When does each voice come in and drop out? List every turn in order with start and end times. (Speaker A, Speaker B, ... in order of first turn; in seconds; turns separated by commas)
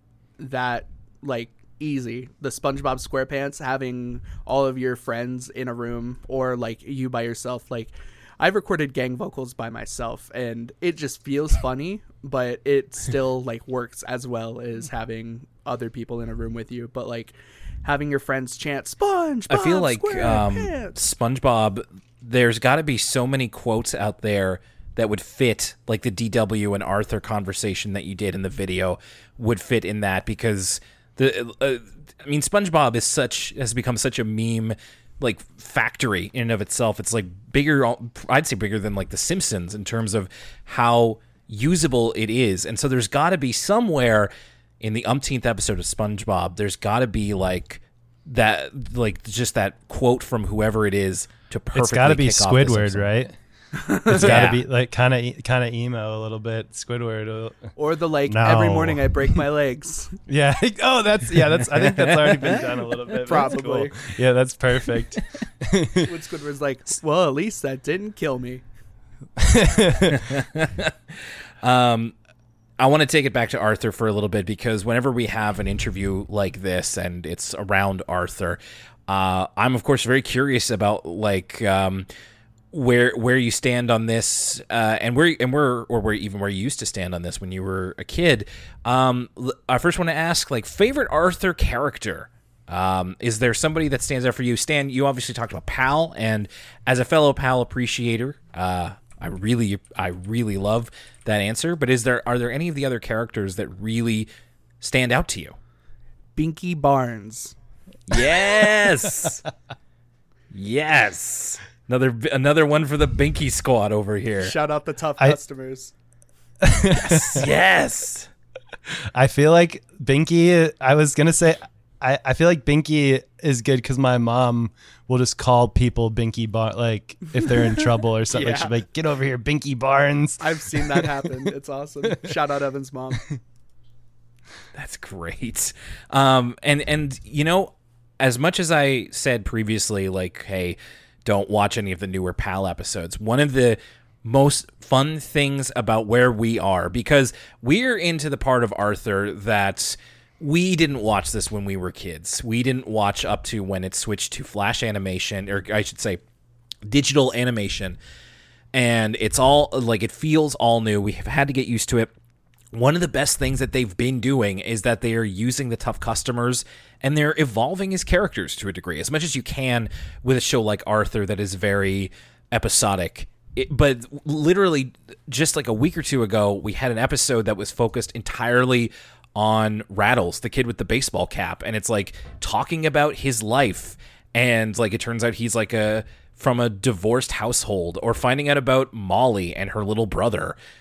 Speaker A: 0.4-20.9, Speaker B: 19.5-53.1, Speaker C: 51.7-53.3, Speaker A: 53.8-54.4, Speaker C: 54.0-57.7, Speaker B: 54.1-54.6, Speaker A: 57.8-60.2, Speaker C: 58.3-59.4, Speaker C: 60.3-66.1, Speaker A: 62.4-64.2, Speaker A: 66.0-68.6, Speaker C: 69.4-70.3, Speaker B: 70.1-72.1, Speaker B: 72.8-82.1, Speaker B: 82.7-104.3, Speaker B: 104.8-105.5, Speaker A: 106.3-107.5, Speaker B: 108.1-109.4, Speaker B: 110.5-114.5, Speaker A: 114.4-115.9, Speaker C: 116.6-117.5, Speaker B: 116.9-118.3, Speaker C: 119.0-131.1, Speaker A: 128.3-128.7, Speaker A: 130.4-133.2, Speaker B: 134.7-156.2, Speaker B: 156.8-158.0, Speaker B: 158.7-162.1, Speaker B: 162.7-190.6